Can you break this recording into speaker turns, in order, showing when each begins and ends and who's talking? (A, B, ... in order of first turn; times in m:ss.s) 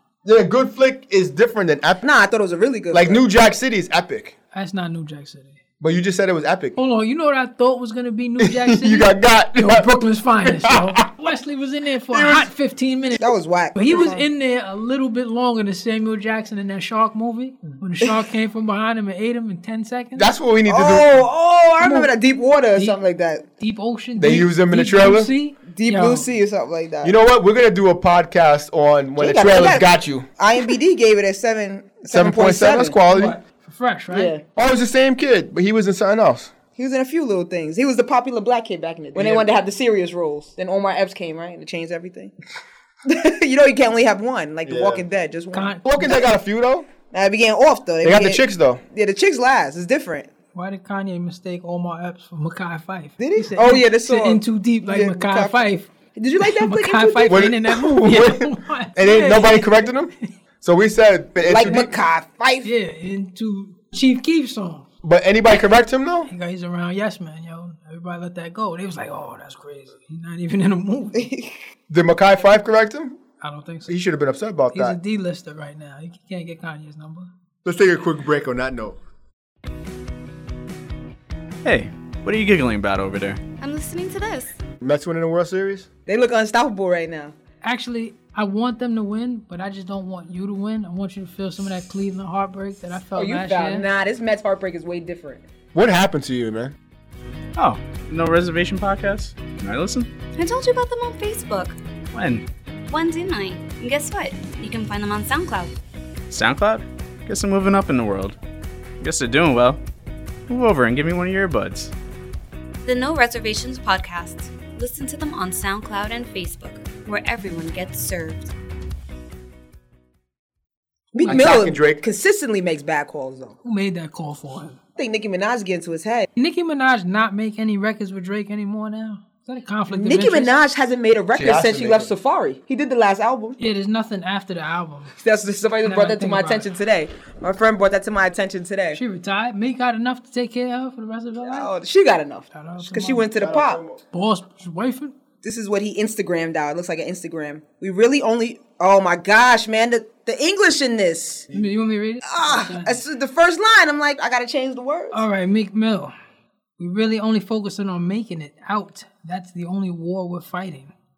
0:00.2-0:02.0 A
0:02.0-0:03.2 B
0:02.9-0:04.4 A
0:04.5-0:05.6 C
0:05.8-0:06.8 A
0:06.8-0:20.3 C
0:08.4-0:11.1 A
0:12.1-0:12.5 A
0:13.2-0:14.2 B
0:20.2-0:21.2 A
0:20.7-0:23.4 B
0:21.8-0:22.1 C
0:23.6-0:26.3 C
0:24.2-0:25.3 A
0:25.7-0:27.1 B
0:27.0-0:30.3 A
0:29.2-0:33.0 B
0:32.1-0:33.4 A
0:33.1-0:34.3 C
0:34.1-0:34.4 B
0:34.6-0:36.5 A
0:36.8-0:42.3 B
0:39.1-0:39.5 A
0:43.1-0:45.8 B
0:44.6-0:45.0 A
0:45.5-0:46.2 C
0:45.8-0:46.9 A
0:47.1-0:50.3 B
0:48.0-0:48.8 A
0:50.5-0:59.9 C
0:53.2-0:55.6 B
0:56.2-0:57.5 B
0:57.3-1:02.0 A
1:01.4-1:02.7 B
1:02.6-1:04.9 C
1:05.0-1:06.3 A
1:06.3-1:11.3 C
1:11.2-1:11.6 B
1:11.9-1:13.2 A
1:13.4-1:14.0 C
1:13.9-1:15.0 A
1:14.7-1:17.3 C
1:17.6-1:19.0 A
1:21.6-1:23.4 D
1:23.6-1:24.6 E
1:24.8-1:25.9 A
1:26.1-1:27.4 B
1:27.6-1:33.9 C
1:33.2-1:35.5 B
1:35.7-1:36.8 A
1:37.6-1:40.1 D
1:40.4-1:41.8 E
1:42.1-1:42.4 D
1:42.9-1:45.7 E
1:46.3-1:48.4 D
1:49.0-1:49.8 D
1:50.5-1:51.9 D
1:52.8-1:58.5 E
2:01.1-2:03.6 B
2:01.2-2:02.0 A
2:03.6-2:04.8 C
2:05.0-2:06.3 B
2:06.4-2:10.5 C
2:09.9-2:13.6 B
2:11.4-2:12.1 A
2:13.6-2:15.2 C
2:15.2-2:19.0 B
2:15.8-2:16.7 C
2:18.9-2:21.7 C
2:21.4-2:23.8 B
2:22.5-2:23.3 C
2:23.4-2:24.0 A
2:24.1-2:25.2 C
2:25.4-2:31.5 B
2:31.5-2:33.0 C
2:32.2-2:35.2 B
2:35.1-2:36.1 C
2:36.8-2:40.9 C